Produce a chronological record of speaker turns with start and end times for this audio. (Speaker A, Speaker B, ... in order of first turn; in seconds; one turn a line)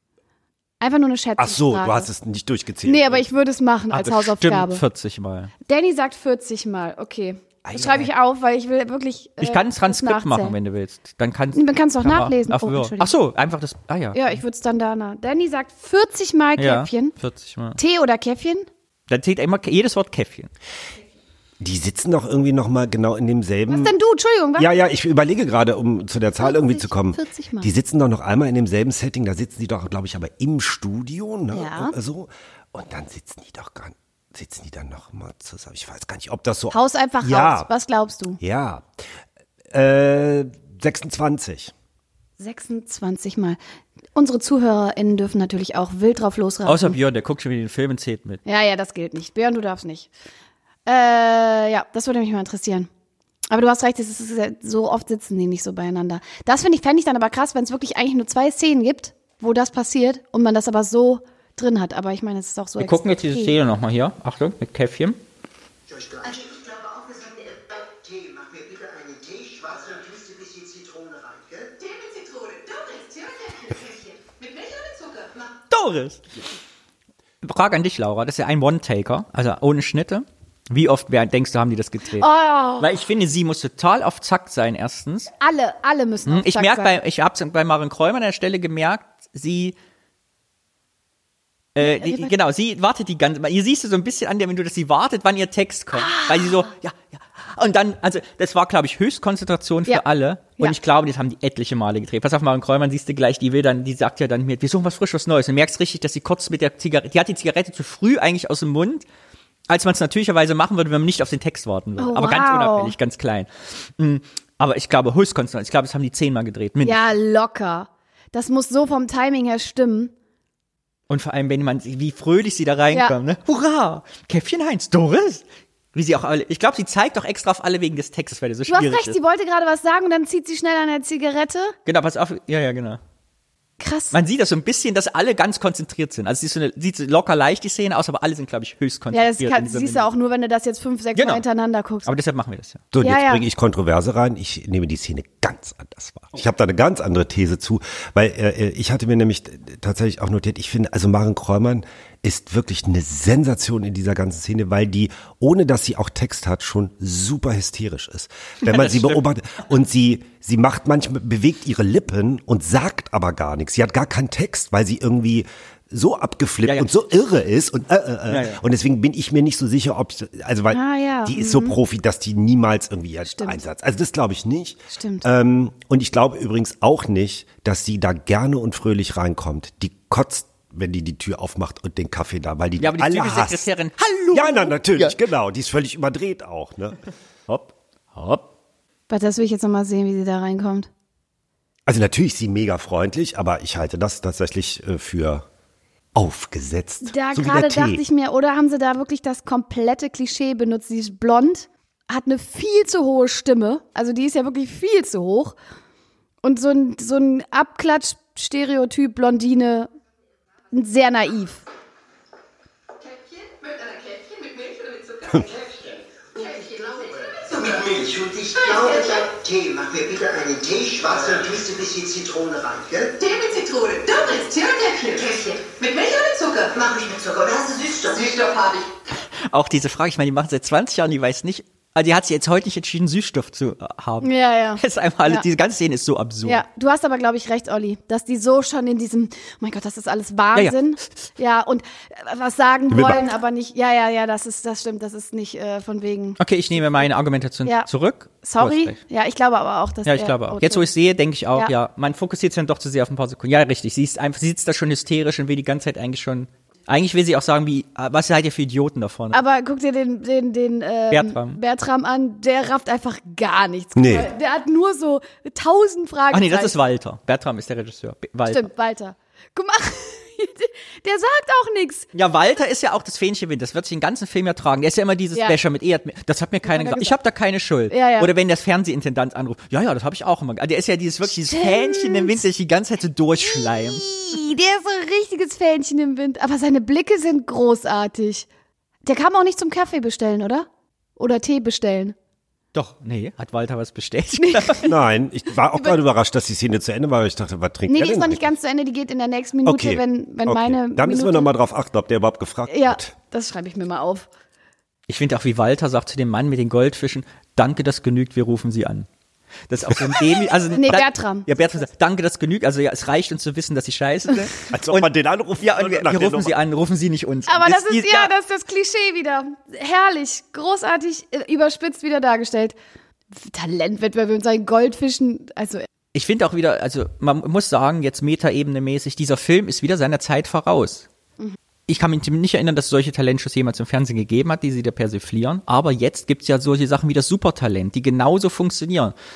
Speaker A: 0.8-2.1
Speaker B: 1.4-3.3
Speaker A: 2.9-4.8
Speaker C: 3.9-5.5
Speaker A: 5.7-10.6
Speaker B: 7.7-8.1
Speaker C: 9.4-14.4
Speaker A: 11.6-13.1
Speaker A: 14.2-17.2
Speaker C: 16.6-17.8
Speaker A: 17.8-18.7
Speaker C: 19.1-20.5
Speaker B: 21.6-23.9
Speaker A: 23.7-24.7
Speaker B: 24.6-37.7
Speaker A: 26.4-27.7
Speaker A: 31.5-31.9
Speaker A: 36.7-38.4
Speaker B: 38.4-38.9
Speaker B: 39.7-41.7
Speaker A: 42.4-43.6
Speaker A: 44.2-47.0
Speaker C: 46.6-48.4
Speaker A: 48.5-50.1
Speaker A: 50.9-52.9
Speaker A: 53.5-63.5
Speaker C: 62.8-65.2
Speaker D: 65.9-71.8
Speaker A: 72.5-73.0
Speaker C: 75.7-76.2
Speaker C: 77.4-85.3
Speaker A: 82.2-82.9
Speaker A: 85.4-87.0
Speaker C: 86.3-89.8
Speaker C: 91.8-109.0
Speaker A: 91.8-92.3
Speaker A: 95.9-96.7
Speaker C: 109.7-117.0
Speaker A: 112.0-113.0
Speaker A: 116.8-120.1
Speaker C: 121.1-129.2
Speaker A: 128.7-131.7
Speaker C: 131.9-133.0
Speaker A: 133.8-134.2
Speaker C: 134.1-140.1
Speaker A: 139.1-142.1
Speaker C: 141.2-141.4
Speaker C: 142.1-142.8
Speaker B: 142.9-183.7
Speaker A: 143.0-143.4
Speaker C: 158.7-159.2
Speaker C: 166.6-166.9
Speaker C: 168.3-168.6
Speaker A: 170.7-171.8
Speaker A: 173.3-173.6
Speaker A: 174.9-175.3
Speaker C: 182.8-185.2
Speaker B: 184.3-187.0
Speaker C: 187.5-188.5
Speaker A: 189.1-190.9
Speaker B: 191.9-195.4
Speaker B: 196.2-198.0
Speaker A: 197.0-205.6
Speaker A: 206.4-209.9
Speaker A: 210.7-211.6
Speaker E: 214.6-215.3
Speaker D: 215.4-223.2
Speaker E: 223.3-226.7
Speaker A: 224.4-224.9
Speaker D: 226.7-228.3
Speaker E: 228.1-228.8
Speaker C: 229.5-236.6
Speaker A: 234.2-235.4
Speaker A: 236.4-247.1
Speaker B: 242.9-243.2
Speaker C: 246.4-249.0
Speaker A: 248.4-250.9
Speaker C: 250.1-259.4
Speaker A: 259.3-266.7
Speaker C: 261.1-261.6
Speaker B: 264.0-264.3
Speaker C: 266.3-268.7
Speaker A: 268.5-272.1
Speaker C: 272.1-284.1
Speaker A: 276.7-277.2
Speaker A: 277.9-278.3
Speaker A: 281.5-282.4
Speaker A: 283.4-288.5
Speaker A: 289.1-290.7
Speaker A: 291.2-292.1
Speaker C: 292.7-294.9
Speaker A: 294.4-294.9
Speaker B: 294.8-298.5
Speaker A: 295.8-296.0
Speaker A: 297.9-301.5
Speaker B: 299.6-303.1
Speaker A: 302.7-304.3
Speaker C: 305.1-309.1
Speaker C: 309.7-315.1
Speaker A: 310.7-311.6
Speaker B: 314.7-316.6
Speaker C: 315.6-318.3
Speaker A: 317.5-322.8
Speaker A: 323.3-325.8
Speaker C: 326.1-331.1
Speaker C: 331.9-339.1